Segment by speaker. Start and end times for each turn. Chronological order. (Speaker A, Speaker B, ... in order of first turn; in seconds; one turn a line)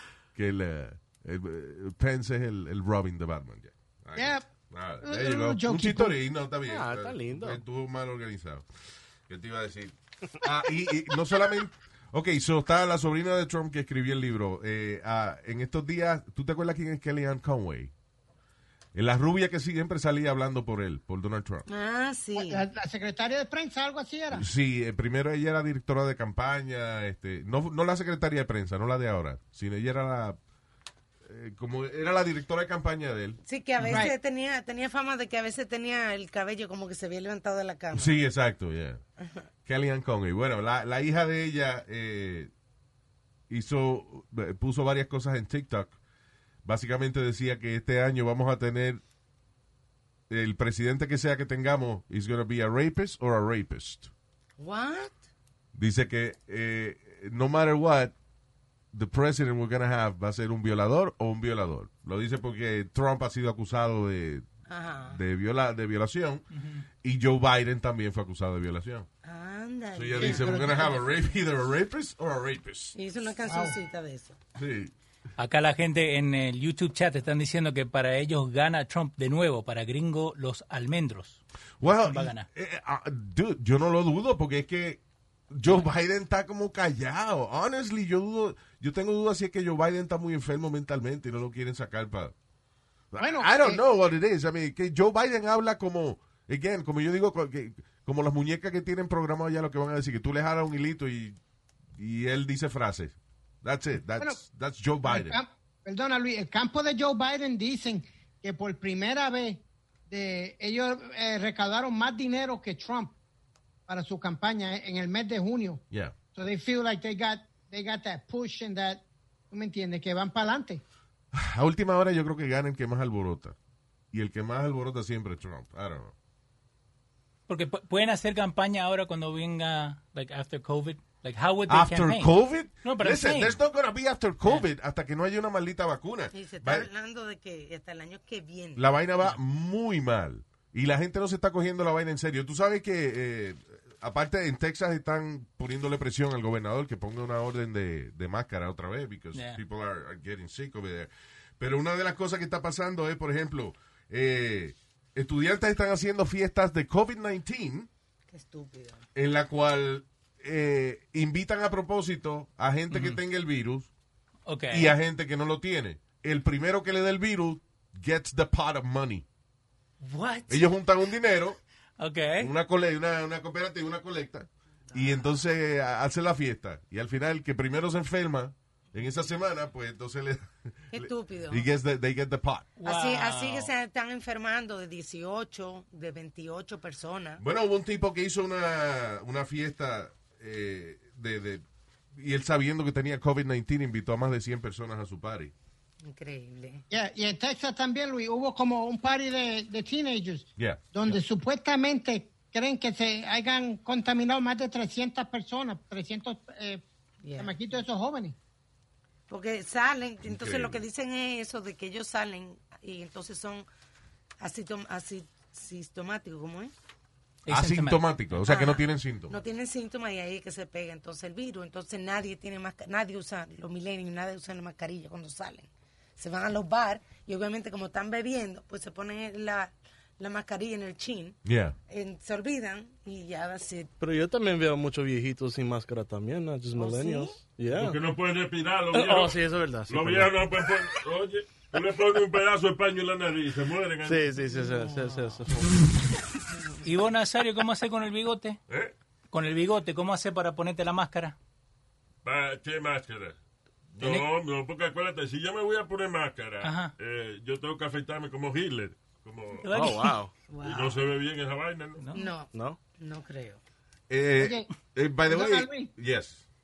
Speaker A: 0.3-8.7
Speaker B: 4.2-4.5
Speaker B: 5.0-6.2
Speaker C: 6.7-7.6
Speaker A: 9.3-17.9
Speaker A: 18.9-21.7
Speaker D: 21.7-22.7
Speaker B: 22.3-24.4
Speaker A: 24.3-30.4
Speaker A: 31.2-33.4
Speaker D: 33.5-38.2
Speaker B: 33.9-34.1
Speaker A: 37.9-39.0
Speaker A: 39.7-42.5
Speaker A: 43.5-46.0
Speaker A: 46.6-49.0
Speaker A: 50.3-54.1
Speaker D: 54.6-55.2
Speaker A: 55.8-58.1
Speaker A: 58.9-64.5
Speaker D: 64.7-65.2
Speaker A: 65.0-66.5
Speaker E: 66.5-66.8
Speaker A: 67.0-69.1
Speaker D: 69.2-71.0
Speaker A: 69.9-73.0
Speaker B: 70.2-70.9
Speaker D: 73.0-74.4
Speaker B: 73.5-73.8
Speaker A: 74.6-74.9
Speaker E: 75.4-82.5
Speaker A: 81.8-92.3
Speaker A: 93.1-101.4
Speaker B: 93.2-93.8
Speaker A: 102.0-105.4
Speaker B: 105.0-113.2
Speaker B: 113.9-115.8
Speaker B: 116.3-120.8
Speaker A: 121.3-123.6
Speaker A: 124.1-126.1
Speaker E: 127.5-132.3
Speaker A: 131.7-136.9
Speaker E: 132.8-133.6
Speaker D: 136.3-138.9
Speaker A: 138.8-157.9
Speaker E: 149.3-149.6
Speaker D: 158.3-159.1
Speaker A: 159.2-163.9
Speaker E: 162.9-163.2
Speaker E: 164.5-165.0
Speaker A: 164.7-169.2
Speaker E: 170.0-170.7
Speaker A: 170.5-171.6
Speaker E: 172.0-172.5
Speaker A: 172.4-182.7
Speaker D: 174.9-175.2
Speaker D: 180.9-181.7
Speaker E: 182.8-183.7
Speaker D: 182.8-187.4
Speaker A: 187.4-191.6
Speaker A: 192.2-195.5
Speaker D: 196.0-196.8
Speaker B: 196.9-206.8
Speaker A: 200.6-201.2
Speaker D: 207.2-207.6
Speaker B: 207.4-208.4
Speaker D: 209.3-213.7
Speaker A: 210.2-210.8
Speaker D: 214.4-216.7
Speaker E: 217.5-218.1
Speaker A: 217.5-219.4
Speaker D: 218.4-233.9
Speaker A: 231.4-231.8
Speaker C: 234.0-238.0
Speaker D: 236.8-237.4
Speaker F: 237.7-244.3
Speaker C: 238.9-240.5
Speaker C: 244.1-245.8
Speaker E: 246.8-248.6
Speaker F: 248.7-248.9
Speaker E: 249.3-251.4
Speaker F: 252.2-253.4
Speaker F: 253.9-259.7
Speaker E: 254.0-254.3
Speaker E: 256.6-256.9
Speaker E: 259.6-260.2
Speaker C: 259.7-260.3
Speaker D: 260.5-261.0
Speaker F: 260.6-262.0
Speaker E: 262.0-262.4
Speaker D: 262.1-263.6
Speaker C: 262.5-262.8
Speaker A: 264.1-266.4
Speaker B: 264.4-264.7
Speaker B: 265.3-265.9